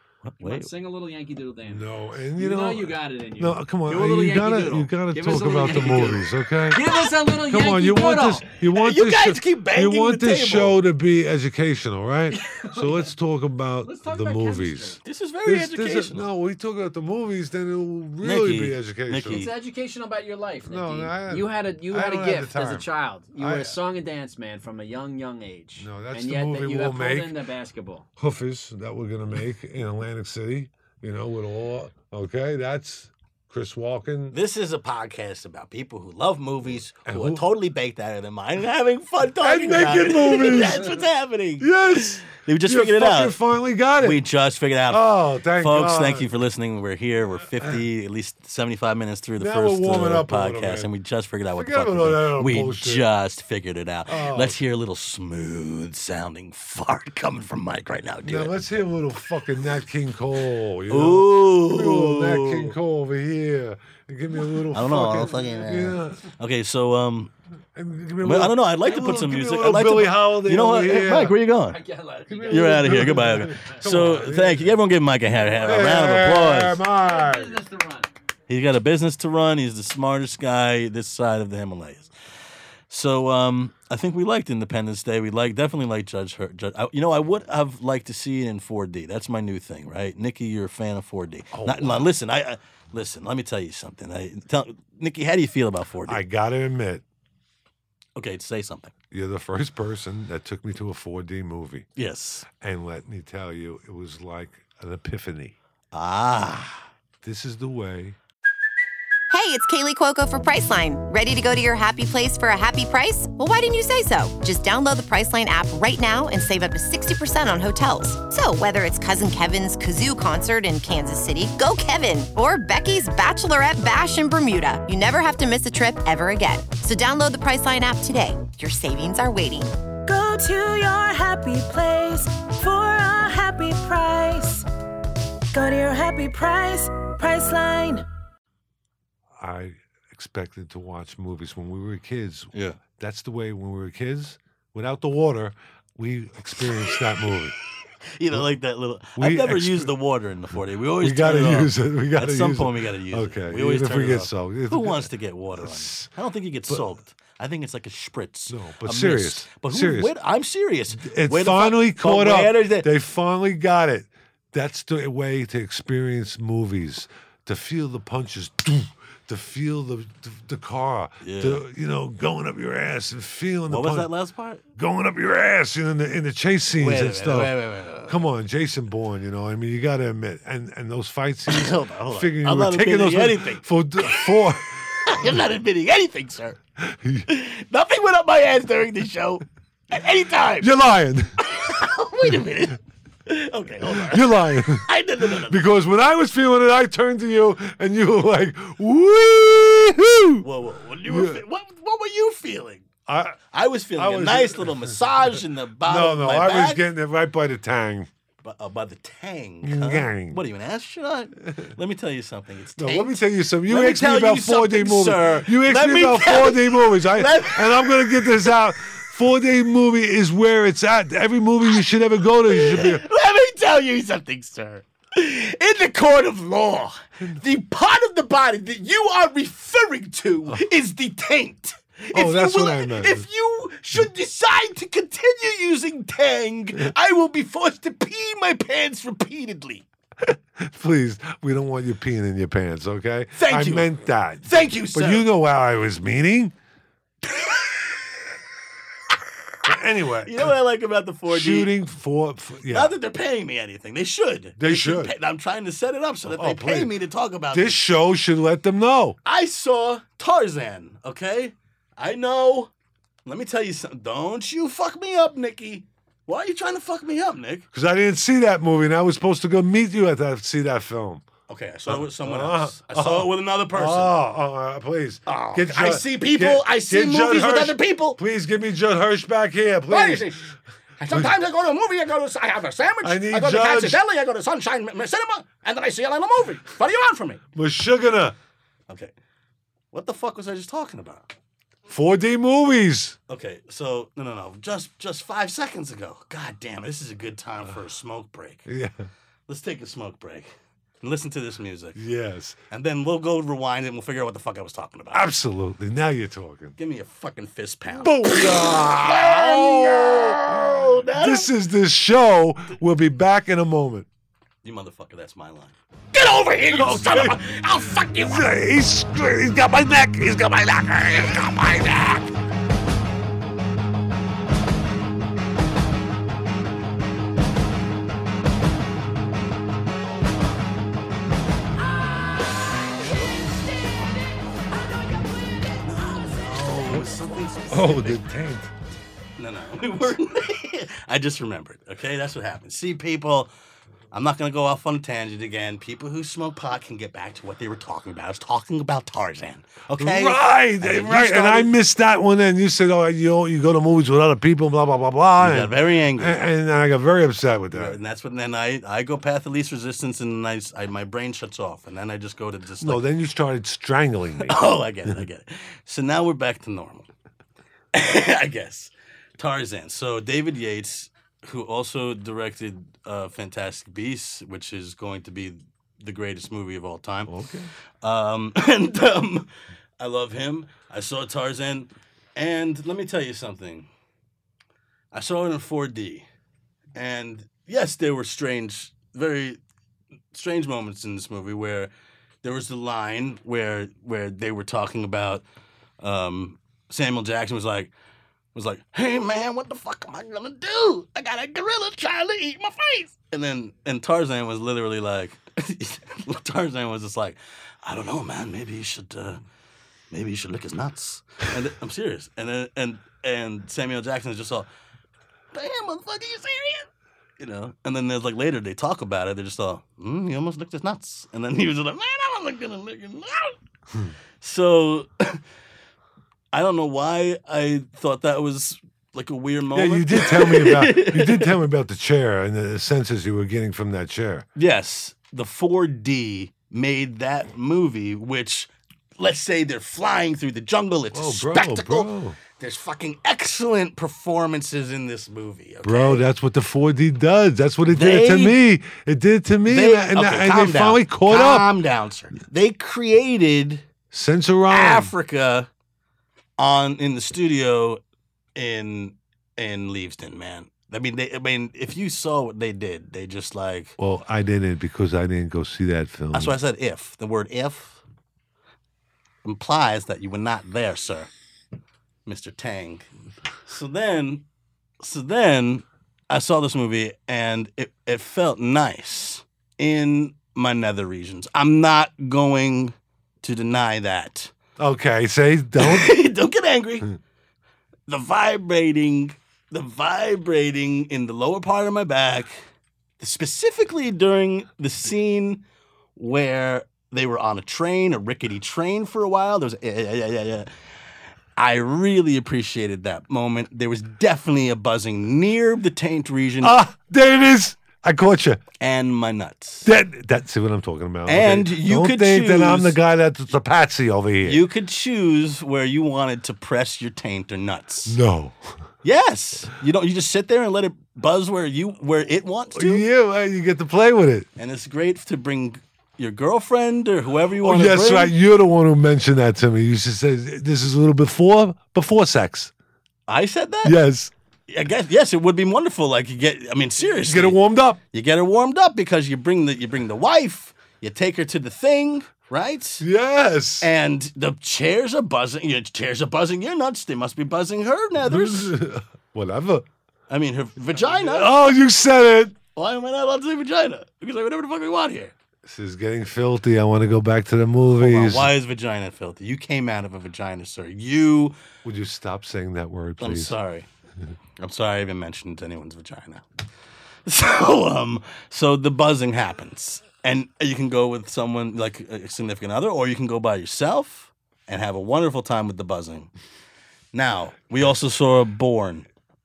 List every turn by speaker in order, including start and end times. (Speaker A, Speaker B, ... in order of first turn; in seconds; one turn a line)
Speaker A: 0.2-0.7
Speaker B: 0.4-8.5
Speaker C: 1.6-19.5
Speaker A: 5.8-6.1
Speaker A: 8.8-10.8
Speaker B: 12.3-13.1
Speaker B: 13.8-15.0
Speaker A: 15.0-16.3
Speaker A: 18.2-19.5
Speaker B: 19.3-28.1
Speaker C: 20.7-23.8
Speaker C: 25.8-27.4
Speaker C: 28.2-34.4
Speaker A: 34.3-43.4
Speaker C: 37.0-37.5
Speaker C: 39.4-41.0
Speaker C: 41.6-44.2
Speaker A: 44.0-45.1
Speaker C: 44.9-46.3
Speaker A: 45.6-58.7
Speaker C: 47.5-47.8
Speaker C: 49.4-50.9
Speaker C: 51.5-53.0
Speaker C: 54.1-54.6
Speaker C: 58.2-66.3
Speaker A: 60.9-62.8
Speaker A: 64.7-67.3
Speaker C: 67.8-71.4
Speaker A: 68.2-71.8
Speaker B: 71.7-74.1
Speaker C: 72.3-74.8
Speaker A: 72.5-76.8
Speaker C: 75.6-77.6
Speaker B: 77.0-78.1
Speaker A: 78.5-82.1
Speaker A: 82.9-96.2
Speaker C: 91.5-92.1
Speaker C: 96.1-97.0
Speaker A: 98.2-98.9
Speaker C: 99.1-101.9
Speaker A: 102.0-102.5
Speaker C: 102.5-105.6
Speaker A: 105.9-106.9
Speaker C: 107.2-108.2
Speaker D: 109.3-129.7
Speaker E: 130.1-134.7
Speaker E: 135.5-138.1
Speaker C: 139.4-147.6
Speaker A: 142.5-142.8
Speaker A: 148.2-162.9
Speaker C: 149.2-149.9
Speaker C: 151.0-156.1
Speaker C: 158.5-160.1
Speaker C: 160.9-174.1
Speaker A: 171.2-171.6
Speaker A: 173.7-174.6
Speaker C: 174.8-185.4
Speaker A: 176.8-178.2
Speaker A: 181.5-186.6
Speaker C: 186.8-187.3
Speaker A: 187.3-190.7
Speaker C: 190.6-191.5
Speaker A: 191.4-195.6
Speaker C: 193.8-200.5
Speaker A: 200.4-202.9
Speaker C: 201.1-201.4
Speaker C: 203.1-203.4
Speaker A: 203.5-206.8
Speaker C: 204.0-208.1
Speaker A: 208.4-218.5
Speaker C: 209.6-210.4
Speaker C: 212.8-223.0
Speaker A: 222.7-223.3
Speaker F: 223.1-224.6
Speaker A: 223.9-224.8
Speaker F: 225.2-226.8
Speaker A: 226.6-226.9
Speaker F: 227.5-230.6
Speaker A: 230.3-231.6
Speaker F: 231.3-231.6
Speaker A: 232.1-237.2
Speaker C: 232.1-233.3
Speaker F: 233.7-234.3
Speaker F: 237.2-239.8
Speaker A: 239.3-239.8
Speaker C: 240.2-246.6
Speaker A: 243.4-243.9
Speaker A: 244.5-245.3
Speaker A: 247.3-247.7
Speaker C: 249.6-250.6
Speaker A: 250.2-251.7
Speaker C: 251.3-252.9
Speaker A: 252.7-257.8
Speaker C: 254.6-255.1
Speaker C: 256.3-256.9
Speaker C: 257.5-259.2
Speaker A: 259.2-262.7
Speaker A: 263.3-267.7
Speaker C: 267.7-271.3
Speaker A: 271.5-274.1
Speaker C: 271.9-280.4
Speaker F: 275.3-278.2
Speaker F: 279.9-287.4
Speaker C: 283.0-284.0
Speaker C: 287.5-288.4
Speaker A: 289.9-291.3
Speaker C: 291.9-293.2
Speaker A: 293.3-298.7
Speaker C: 298.7-299.1
Speaker A: 299.5-302.0
Speaker C: 301.9-302.6
Speaker A: 302.7-305.3
Speaker C: 305.1-306.8
Speaker A: 306.8-311.5
Speaker C: 307.9-314.1
Speaker A: 314.6-315.8
Speaker F: 316.1-318.4
Speaker C: 316.7-317.4
Speaker C: 318.1-322.3
Speaker A: 333.1-333.6
Speaker A: 335.9-338.2
Speaker C: 337.7-338.7
Speaker A: 339.4-343.5
Speaker A: 344.1-351.7
Speaker C: 350.0-358.0
Speaker A: 355.4-356.4
Speaker A: 357.7-363.0
Speaker C: 362.8-365.2
Speaker A: 364.4-367.1
Speaker A: 367.9-377.3
Speaker C: 377.3-377.7
Speaker A: 378.0-383.9
Speaker A: 385.1-386.3
Speaker A: 386.9-389.6
Speaker A: 390.3-391.9
Speaker A: 392.4-395.4
Speaker A: 396.0-397.9
Speaker A: 398.6-409.4
Speaker A: 410.1-414.7
Speaker A: 415.5-416.9
Speaker A: 417.4-423.6
Speaker A: 424.4-425.4
Speaker A: 426.5-431.6
Speaker C: 429.7-434.5
Speaker A: 434.6-442.1
Speaker C: 441.1-442.4
Speaker A: 442.6-446.2
Speaker C: 445.8-451.7
Speaker A: 447.9-448.6
Speaker A: 449.7-453.8
Speaker C: 454.1-455.1
Speaker A: 454.7-455.7
Speaker A: 456.6-458.0
Speaker A: 458.6-464.0
Speaker C: 464.0-466.6
Speaker A: 466.3-468.0
Speaker A: 469.4-471.3
Speaker A: 472.3-473.1
Speaker A: 473.7-474.4
Speaker A: 475.0-484.5
Speaker C: 484.8-486.1
Speaker A: 485.8-487.1
Speaker A: 488.1-492.6
Speaker A: 493.2-495.6
Speaker A: 496.2-500.7
Speaker A: 501.6-506.8
Speaker C: 506.6-508.6
Speaker A: 508.8-509.9
Speaker C: 509.9-514.6
Speaker A: 511.3-513.0
Speaker A: 514.4-518.2
Speaker C: 518.1-518.8
Speaker A: 519.0-523.0
Speaker C: 522.8-524.5
Speaker A: 524.6-528.3
Speaker C: 527.6-532.7
Speaker A: 533.3-534.0
Speaker C: 533.8-534.3
Speaker A: 534.7-537.6
Speaker C: 537.1-538.0
Speaker A: 538.1-543.1
Speaker C: 543.0-543.9
Speaker A: 543.8-548.7
Speaker C: 548.2-549.9
Speaker A: 550.3-551.6
Speaker C: 550.9-552.6
Speaker A: 552.8-555.3
Speaker C: 555.6-558.5
Speaker A: 558.0-561.6
Speaker C: 561.8-563.5
Speaker A: 563.2-563.9
Speaker A: 564.6-566.5
Speaker A: 567.3-576.3
Speaker A: 577.1-579.1